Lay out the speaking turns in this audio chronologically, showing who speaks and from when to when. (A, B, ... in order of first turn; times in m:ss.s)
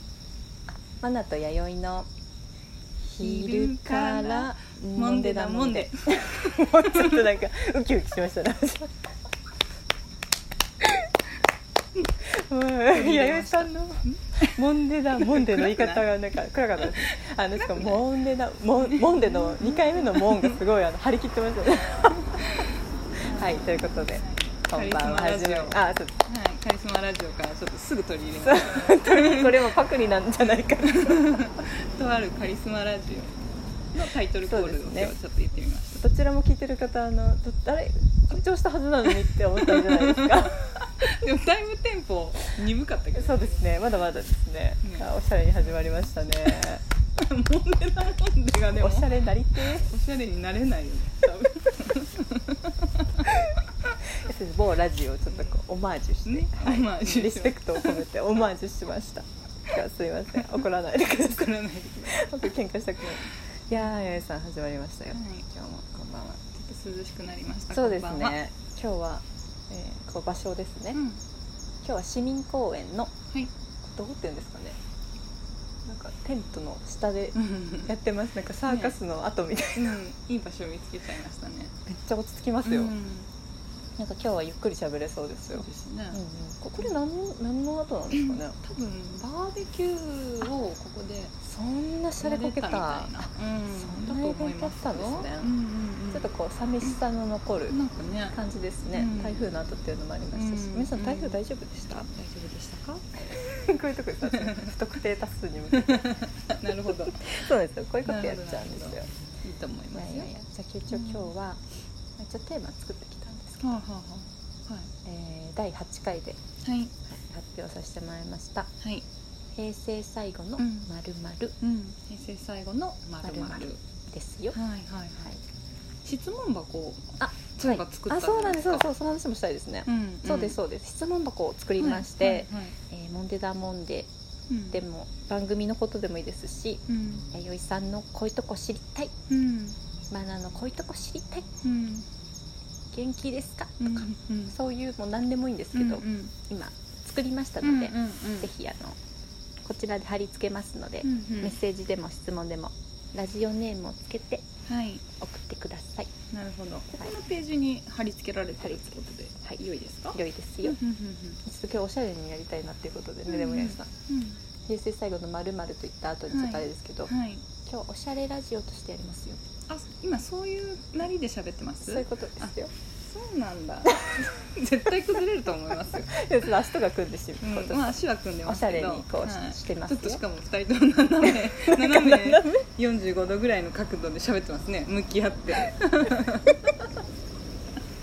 0:01.0-0:02.1 A
0:03.0-0:08.9 A
0:03.2-0:07.4 B
0:12.2-0:22.6 A
0:12.9-0:14.6 B
0:15.2-0:16.1 B
0:16.8-0:18.0 B
0:18.8-0:20.6 B
0:22.4-0:29.7 B
0:23.2-0:26.1 A
0:28.4-0:31.4 A
0:30.8-0:36.0 B
0:34.4-0:35.1 A
0:36.0-0:40.6 A
0:39.6-0:43.7 B
0:43.2-0:46.8 A
0:44.8-0:46.1 B
0:47.2-0:53.9 B
0:48.7-0:49.9 A
0:54.1-1:06.4 A
0:56.2-0:58.0 B
1:00.3-1:04.2 B
1:05.1-1:05.4 B
1:06.5-1:08.4 B
1:07.7-1:11.0 A
1:10.9-1:11.2 B
1:11.8-1:13.1 A
1:13.8-1:14.8 A
1:15.8-1:20.0 A
1:17.4-1:17.9 B
1:18.7-1:19.0 B
1:19.8-1:21.8 B
1:21.9-1:22.9 A
1:22.6-1:23.3 B
1:24.0-1:28.6 A
1:25.5-1:26.2 B
1:28.1-1:31.3 B
1:31.4-1:35.5 A
1:32.2-1:36.3 B
1:36.1-1:37.8 A
1:37.7-1:38.4 B
1:38.3-1:42.1 A
1:38.9-1:39.4 B
1:40.3-1:41.4 B
1:42.1-1:43.1 B
1:43.2-1:46.2 A
1:44.2-1:44.7 B
1:45.7-1:47.3 B
1:46.9-1:49.1 A
1:48.0-1:50.3 B
1:49.9-1:51.6 A
1:50.9-1:51.3 B
1:52.2-1:53.8 A
1:53.6-1:54.9 B
1:55.0-1:56.4 A
1:56.6-1:56.9 B
1:57.0-1:58.7 A
1:58.8-1:59.0 B
1:59.6-2:01.6 A
2:00.6-2:00.9 B
2:01.6-2:03.8 B
2:03.2-2:04.6 A
2:04.5-2:05.3 B
2:06.0-2:08.9 B
2:07.2-2:14.1 A
2:09.8-2:10.6 B
2:11.8-2:12.8 B
2:14.5-2:14.8 B
2:14.7-2:19.1 A
2:16.9-2:17.3 B
2:19.3-2:19.8 B
2:20.1-2:21.5 A
2:21.6-2:22.1 B
2:22.9-2:29.0 A
2:23.8-2:24.6 B
2:25.7-2:26.3 B
2:27.6-2:28.5 B
2:29.6-2:34.5 A
2:31.0-2:31.6 B
2:34.7-2:35.0 B
2:35.1-2:36.1 A
2:36.3-2:41.4 B
2:38.6-2:40.8 A
2:41.4-2:43.9 A
2:43.3-2:44.4 B
2:44.7-2:47.1 A
2:46.3-2:47.4 B
2:47.6-2:49.4 A
2:49.7-2:52.5 B
2:51.8-2:52.7 A
2:53.0-2:56.5 B
2:53.9-2:54.2 A
2:56.0-3:00.2 A
2:57.4-3:06.8 B
3:01.2-3:02.7 A